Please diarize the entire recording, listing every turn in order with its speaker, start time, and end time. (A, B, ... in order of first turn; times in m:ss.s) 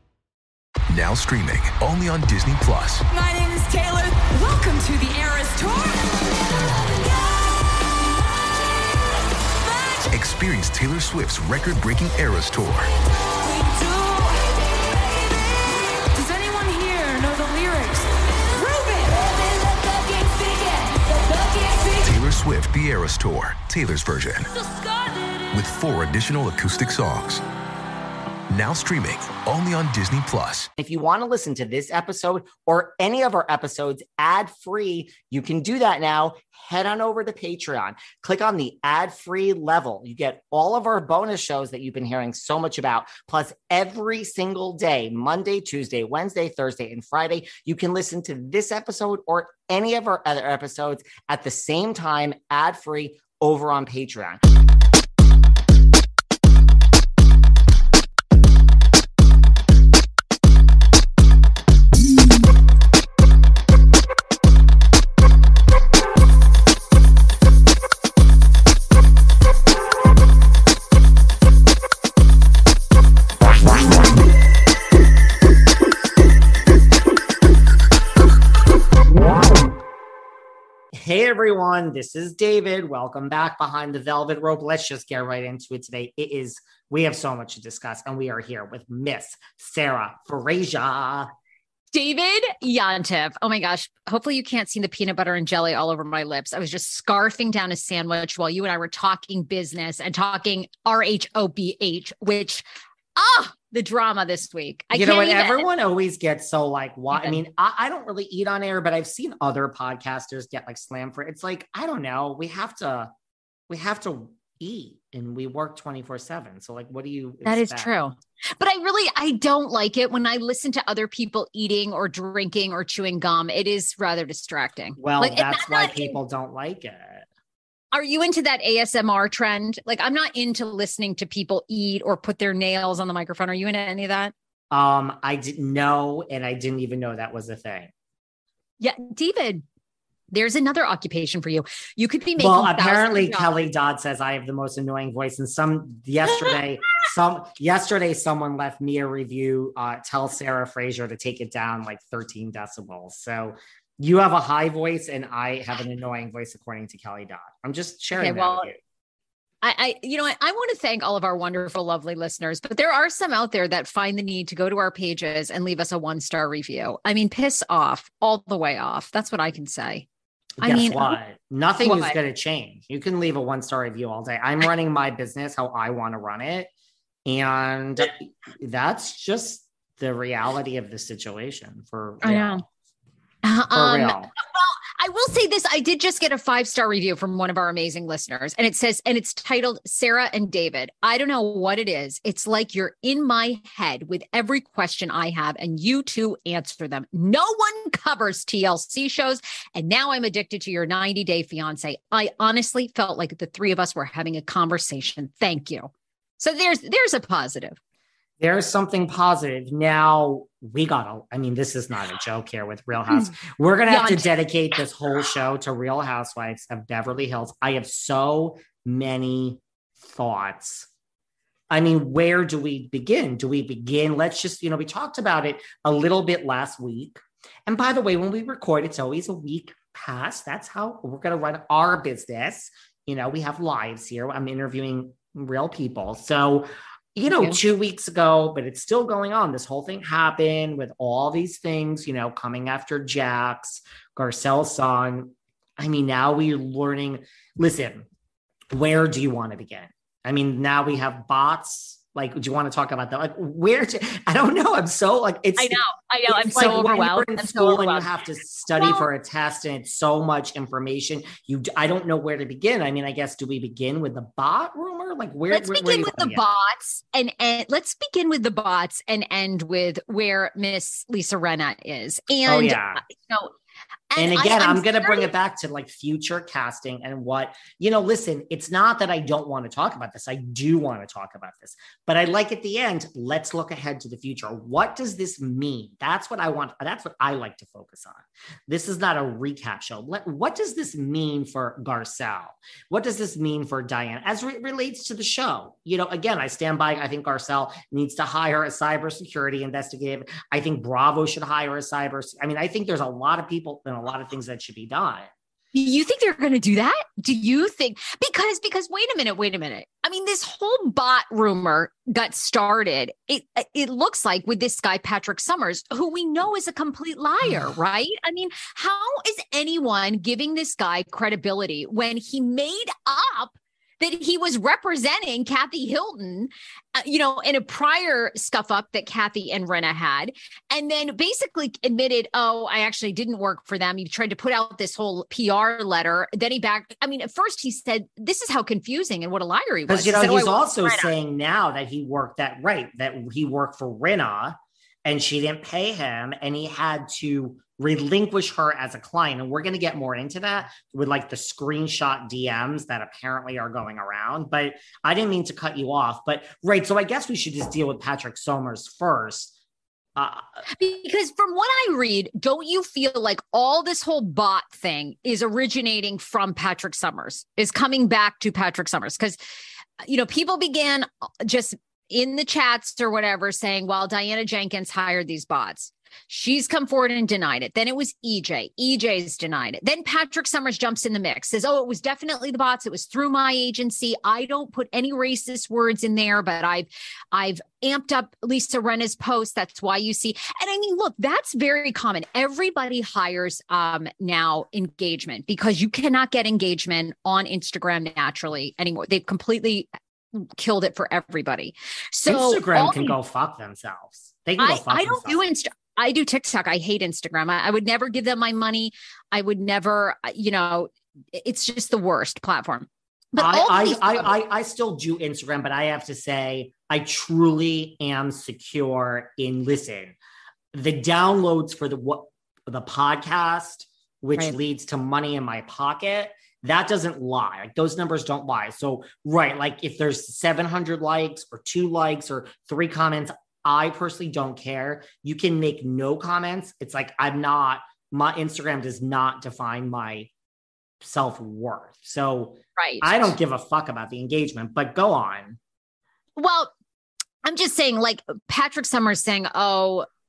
0:00.9-0:03.0 A
0:03.1-0:10.1 B
0:10.1-0:12.9 A
0:13.4-0:22.2 B
0:22.0-0:24.5 A
0:24.5-0:25.6 B
0:25.5-0:27.4 A
0:28.5-0:30.7 A
0:30.8-0:54.4 C
1:20.9-1:31.3 C
1:31.9-1:42.6 D
1:43.2-1:45.7 D
1:44.9-1:53.1 C
1:47.1-1:47.4 D
1:53.7-1:57.9 C
1:57.4-2:06.2 D
2:05.0-2:07.2 C
2:07.9-2:14.3 D
2:14.7-2:17.9 C
2:18.8-2:19.6 D
2:20.3-2:23.6 D
2:22.4-2:38.8 C
2:38.2-2:38.7 D
2:39.6-2:50.0 D
2:50.6-2:51.2 D
2:50.6-2:56.7 C
2:51.8-2:52.2 D
2:57.2-3:02.6 C
3:02.2-3:02.6 D
3:03.4-3:27.8 D
3:03.7-3:04.3 C
3:28.4-3:40.9 C
3:33.9-3:34.3 D
3:41.7-4:08.1 C
3:57.3-3:57.6 D
4:08.7-4:26.4 C
4:15.6-4:18.2 D
4:18.7-4:19.1 D
4:25.5-4:33.5 D
4:32.4-4:33.0 C
4:34.1-4:35.3 D
4:34.2-5:05.3 C
5:05.7-5:41.1 D
5:39.9-5:59.5 C
6:00.2-6:00.6 C
6:00.7-6:09.4 D
6:10.0-6:43.2 D
6:42.2-6:45.4 C
6:44.6-6:54.3 D
6:53.4-7:00.2 C
7:00.7-7:20.3 C
7:21.0-7:25.6 C
7:22.8-7:23.3 D
7:26.4-7:26.7 D
7:27.4-7:30.0 D